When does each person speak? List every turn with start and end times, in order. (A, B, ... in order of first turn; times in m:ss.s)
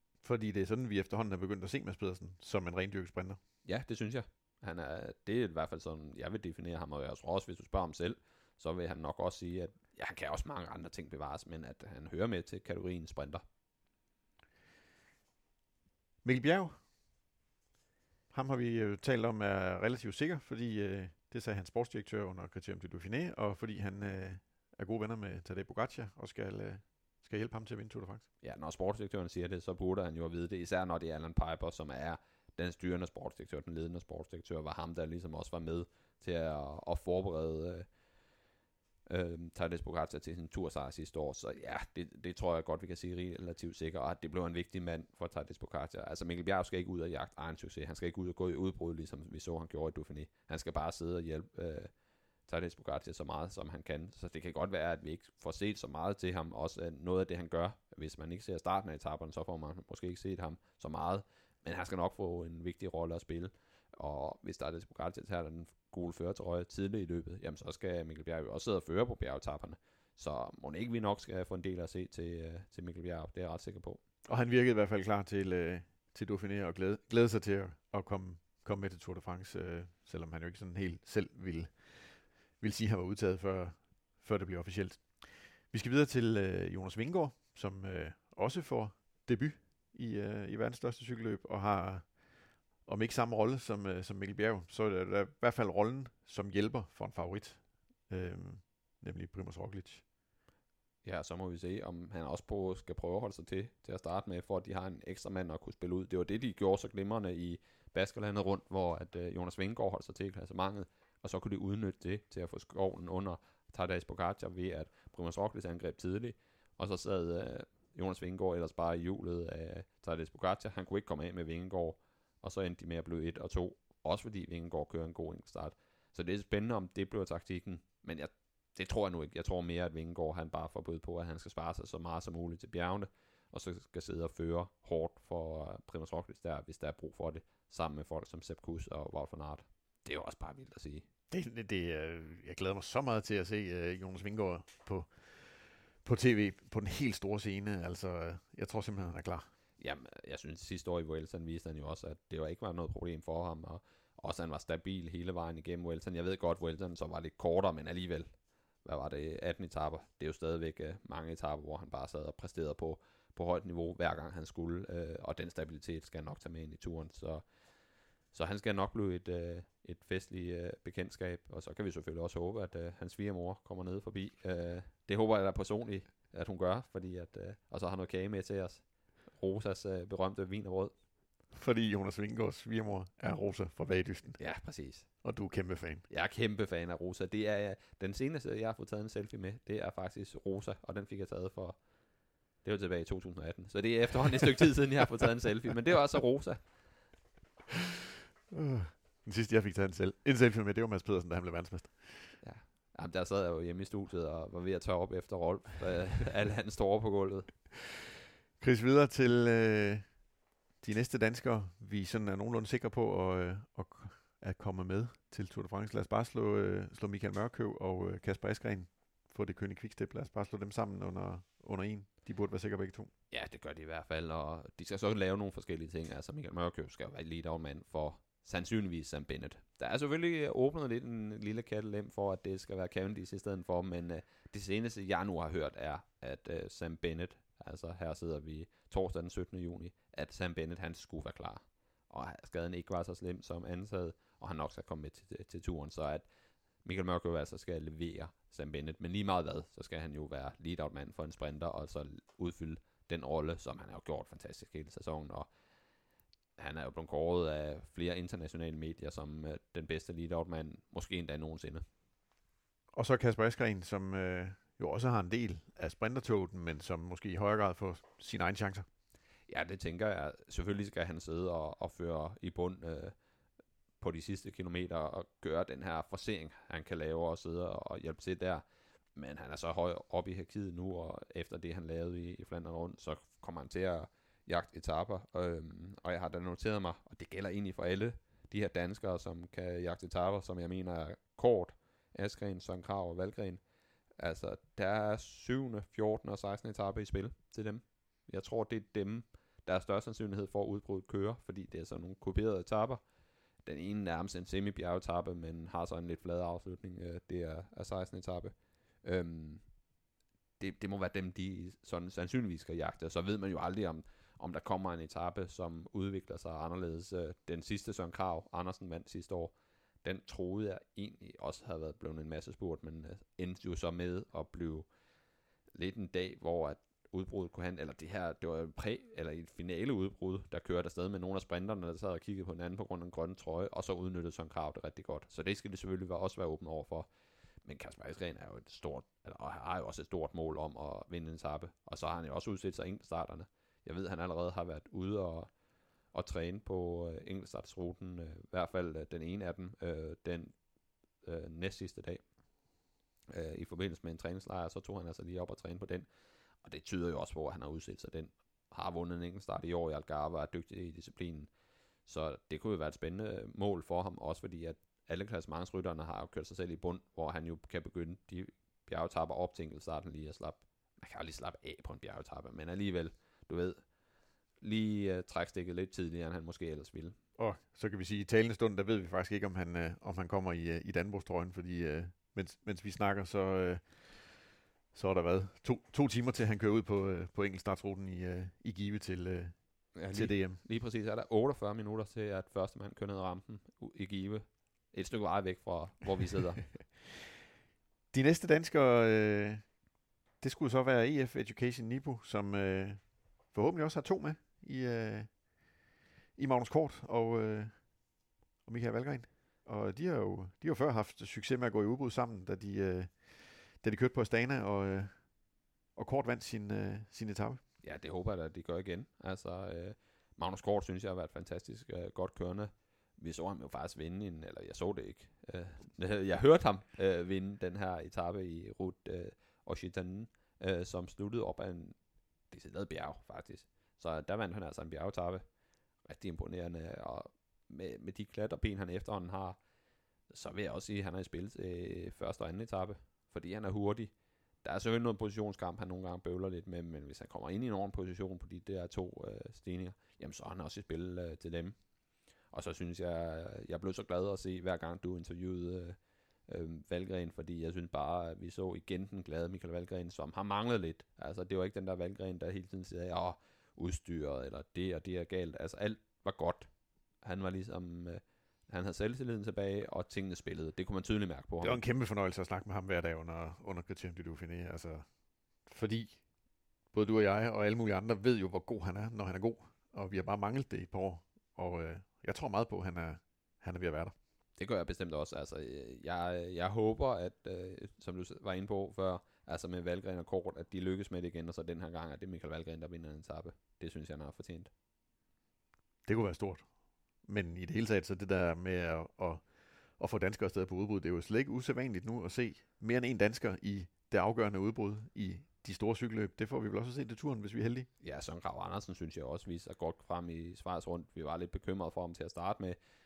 0:00.2-0:03.4 A
0:03.6-0:13.4 B
0:16.2-0:16.8 A
0:18.3-0:28.3 A
0:28.4-0:37.9 B
0:39.1-0:51.9 B
0:52.5-1:14.0 B
1:14.3-1:40.0 A
1:41.0-2:21.0 B
2:21.3-2:29.5 A
2:29.8-2:38.3 B
2:38.8-2:47.4 B
2:48.3-3:01.0 B
3:01.5-3:04.5 A
3:04.4-3:05.1 B
3:05.2-3:06.1 A
3:06.1-3:17.1 B
3:18.5-3:22.4 A
3:22.4-3:27.9 B
3:28.6-3:43.1 A
3:43.3-4:06.3 B
4:06.8-4:15.5 B
4:16.6-4:21.8 B
4:22.9-4:28.9 A
4:29.5-4:33.2 B
4:34.0-4:38.6 B
4:39.2-4:53.6 B
4:54.2-5:03.0 B
5:03.6-5:10.0 B
5:10.6-5:24.9 B
5:25.7-5:37.1 B
5:37.6-5:45.5 B
5:46.1-5:50.6 B
5:51.2-5:52.2 B
5:53.3-5:56.1 B
5:56.6-6:01.5 B
6:02.0-6:13.8 B
6:14.6-6:17.2 B
6:17.4-6:30.6 A
6:30.0-6:36.8 B
6:38.1-6:57.6 A
6:57.8-7:15.4 B
7:16.0-7:19.6 B
7:20.3-7:31.8 B
7:32.5-7:46.7 B
7:47.2-7:51.8 B
7:51.6-8:04.1 A
8:04.6-8:14.7 B
8:16.0-8:27.9 A
8:28.0-8:32.8 B